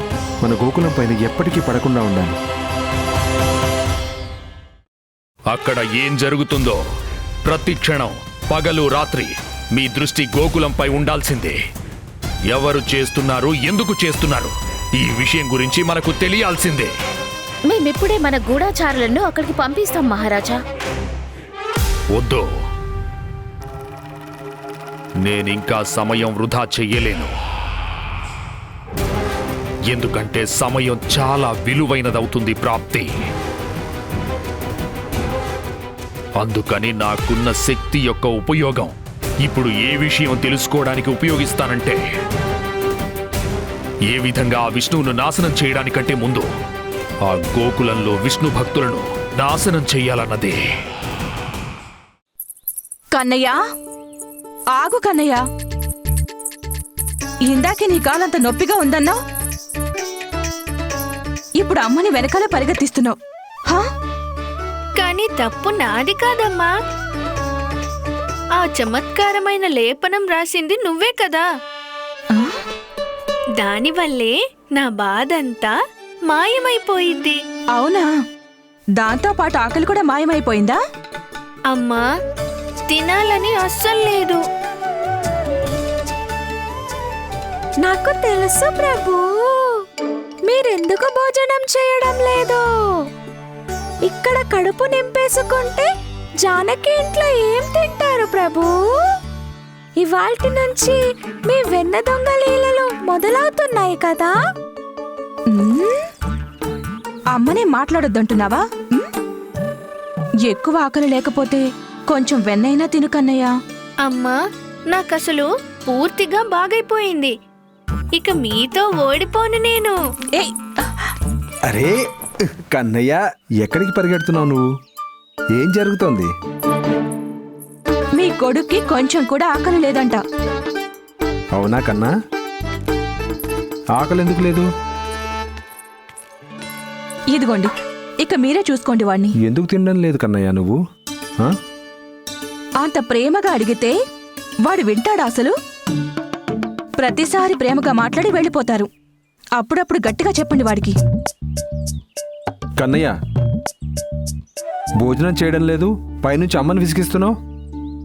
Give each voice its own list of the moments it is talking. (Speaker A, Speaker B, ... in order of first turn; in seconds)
Speaker A: 0.4-2.4, 121.7-122.0, 122.5-124.7, 125.6-126.3, 131.5-132.1, 134.0-134.7, 139.4-140.8, 152.8-153.1, 155.0-157.3
Speaker B: 5.5-6.8, 7.4-11.6, 12.5-16.9, 22.1-22.5, 25.2-27.3, 29.9-33.1, 36.4-42.0, 44.1-46.5, 47.2-50.6
Speaker C: 17.7-20.6
Speaker D: 53.1-53.6, 54.7-55.4, 57.5-59.2, 61.6-63.2, 72.3-72.6, 77.8-78.1, 79.0-80.8, 105.5-106.0, 107.3-109.1, 110.5-113.5, 120.4-121.1, 128.2-130.2, 137.3-139.3, 142.8-144.0, 144.6-145.5, 147.0-148.9, 149.6-150.9
Speaker E: 65.0-66.7, 68.6-71.5, 73.6-75.7, 76.3-77.4, 81.7-82.0, 82.9-84.4, 114.0-114.4, 114.9-117.3, 118.2-120.0
Speaker F: 87.8-89.7, 90.5-92.6, 94.0-95.9, 96.4-98.8, 100.0-104.3